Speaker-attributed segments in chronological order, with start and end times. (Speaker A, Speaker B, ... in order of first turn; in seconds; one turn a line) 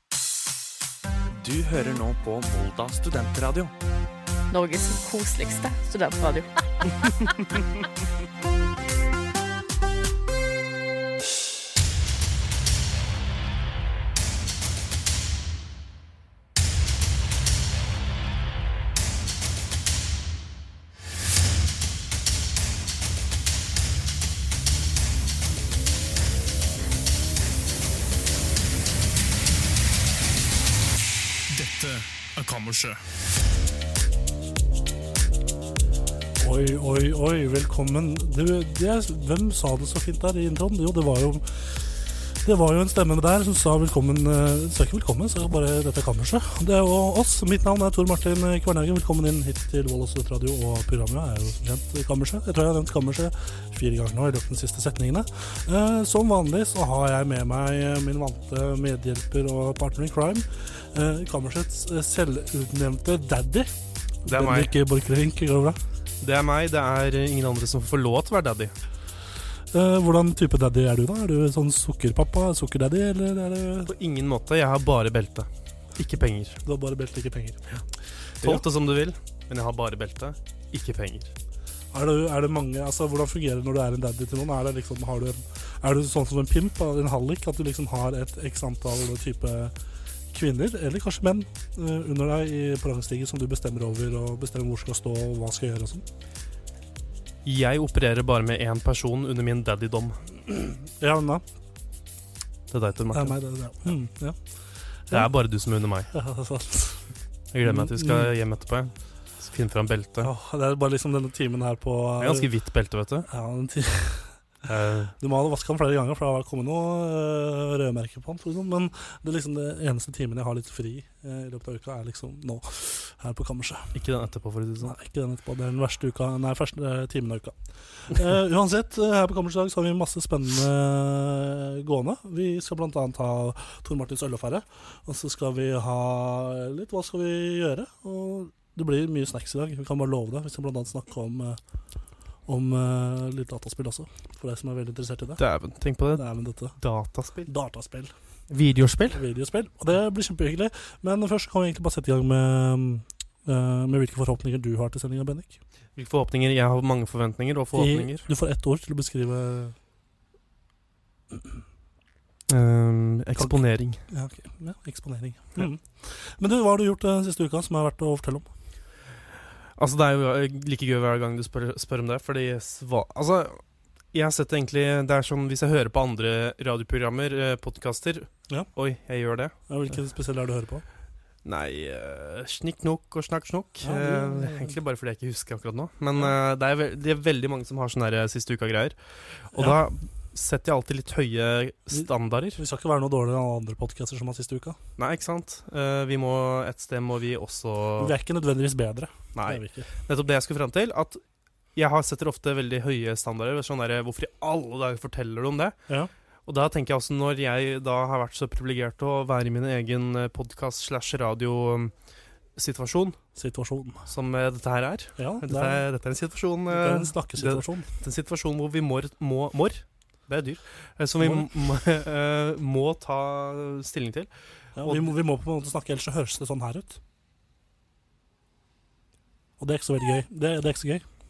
Speaker A: 1.4-3.7
Speaker B: 4.5-7.2
Speaker C: 31.5-33.0
Speaker D: 36.4-63.7
Speaker D: 64.2-65.8
Speaker C: 64.2-64.7
Speaker C: 66.2-68.7
Speaker D: 69.7-73.9
Speaker C: 73.8-76.6
Speaker D: 76.6-77.6
Speaker C: 78.4-81.3
Speaker D: 81.9-89.8
Speaker D: 90.3-96.0
Speaker C: 97.4-100.2
Speaker D: 100.5-101.4
Speaker C: 102.7-103.9
Speaker D: 103.1-104.4
Speaker D: 105.0-105.3
Speaker C: 105.1-106.1
Speaker D: 106.1-107.1
Speaker C: 107.5-110.3
Speaker D: 107.6-108.3
Speaker D: 110.2-112.5
Speaker C: 112.2-113.3
Speaker D: 113.3-114.4
Speaker C: 114.6-115.1
Speaker D: 115.2-124.0
Speaker C: 123.9-124.9
Speaker D: 124.8-141.6
Speaker D: 142.4-145.4
Speaker C: 145.4-147.5
Speaker D: 146.1-146.8
Speaker D: 147.4-148.1
Speaker C: 148.5-149.2
Speaker D: 149.1-155.6
Speaker C: 155.9-158.3
Speaker D: 157.7-159.7
Speaker C: 162.5-164.0
Speaker D: 164.1-168.5
Speaker C: 169.8-179.5
Speaker D: 179.7-180.8
Speaker C: 181.4-192.6
Speaker D: 183.8-184.7
Speaker D: 189.5-189.8
Speaker D: 191.9-194.8
Speaker C: 195.0-198.1
Speaker D: 198.0-199.9
Speaker C: 199.3-201.2
Speaker C: 201.7-205.8
Speaker C: 206.4-211.9
Speaker C: 212.5-213.2
Speaker D: 213.3-214.0
Speaker C: 214.1-225.1
Speaker D: 215.2-215.8
Speaker D: 216.7-217.9
Speaker D: 221.2-221.5
Speaker D: 224.8-227.0
Speaker D: 229.6-231.1